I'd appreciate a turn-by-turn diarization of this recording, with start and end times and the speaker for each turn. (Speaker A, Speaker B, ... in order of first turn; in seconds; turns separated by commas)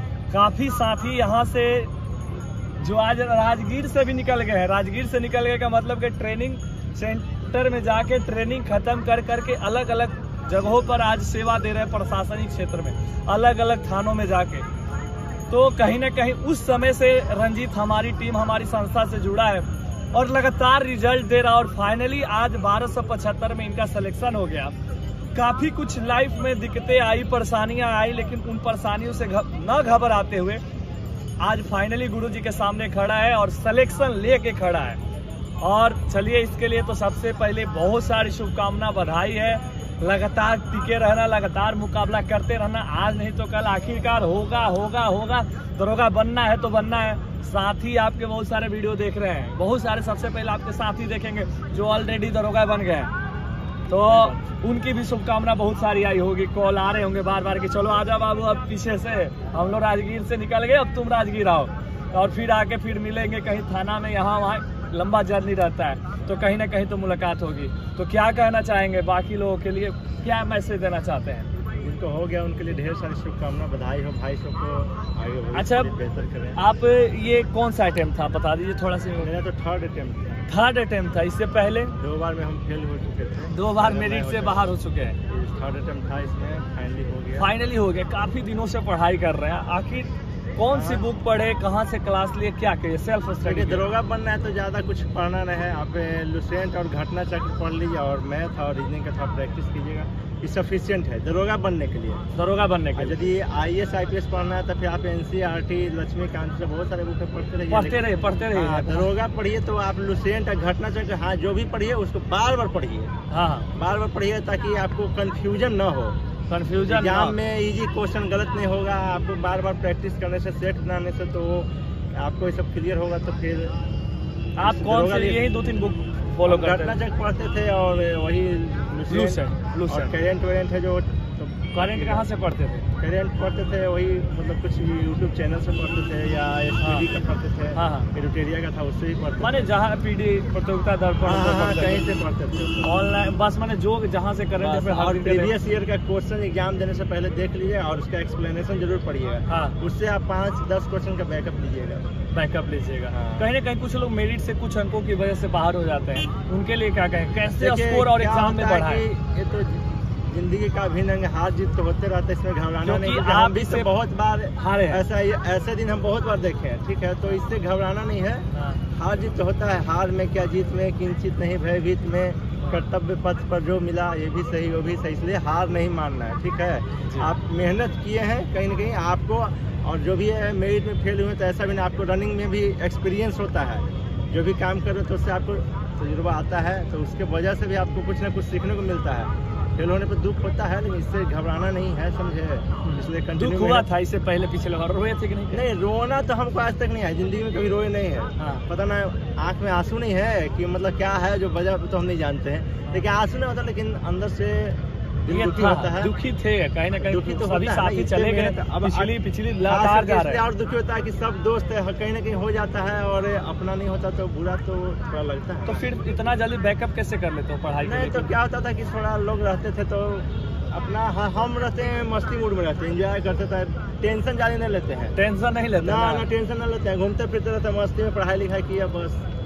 Speaker A: 0.3-1.9, Speaker A: 2.8-14.7, Speaker A: 15.5-24.8, Speaker A: 25.3-30.6, Speaker A: 31.4-35.0, Speaker A: 35.6-53.1, Speaker A: 53.9-71.5, Speaker B: 54.0-54.4, Speaker B: 71.7-76.6, Speaker A: 75.5-75.9, Speaker A: 76.6-79.3, Speaker B: 79.2-80.4, Speaker A: 80.5-81.9, Speaker B: 82.0-84.7, Speaker A: 83.5-85.2, Speaker B: 85.3-87.5, Speaker A: 87.4-93.8, Speaker B: 90.7-91.0, Speaker B: 93.4-102.2, Speaker A: 102.3-103.2, Speaker B: 103.0-113.1, Speaker A: 107.7-109.1, Speaker A: 113.3-113.7, Speaker B: 113.7-116.2, Speaker A: 116.5-117.3, Speaker B: 116.8-123.7, Speaker A: 124.6-127.0, Speaker B: 124.6-125.5, Speaker B: 126.4-132.3, Speaker A: 129.1-130.1, Speaker A: 131.7-132.8, Speaker B: 133.0-139.6, Speaker A: 136.8-137.1, Speaker A: 137.8-138.1, Speaker A: 139.4-142.1, Speaker B: 141.2-142.9, Speaker A: 142.8-145.5, Speaker B: 144.6-152.0, Speaker A: 149.5-149.8, Speaker A: 152.3-159.0, Speaker B: 153.1-153.5, Speaker B: 157.5-193.8, Speaker A: 162.8-163.9, Speaker A: 164.6-165.0, Speaker A: 168.5-168.8, Speaker A: 192.8-195.6, Speaker B: 195.5-206.1, Speaker A: 198.4-198.6, Speaker A: 205.3-210.4, Speaker B: 207.0-215.8, Speaker A: 215.7-218.3, Speaker B: 217.8-225.1, Speaker A: 225.1-226.2, Speaker B: 225.8-229.2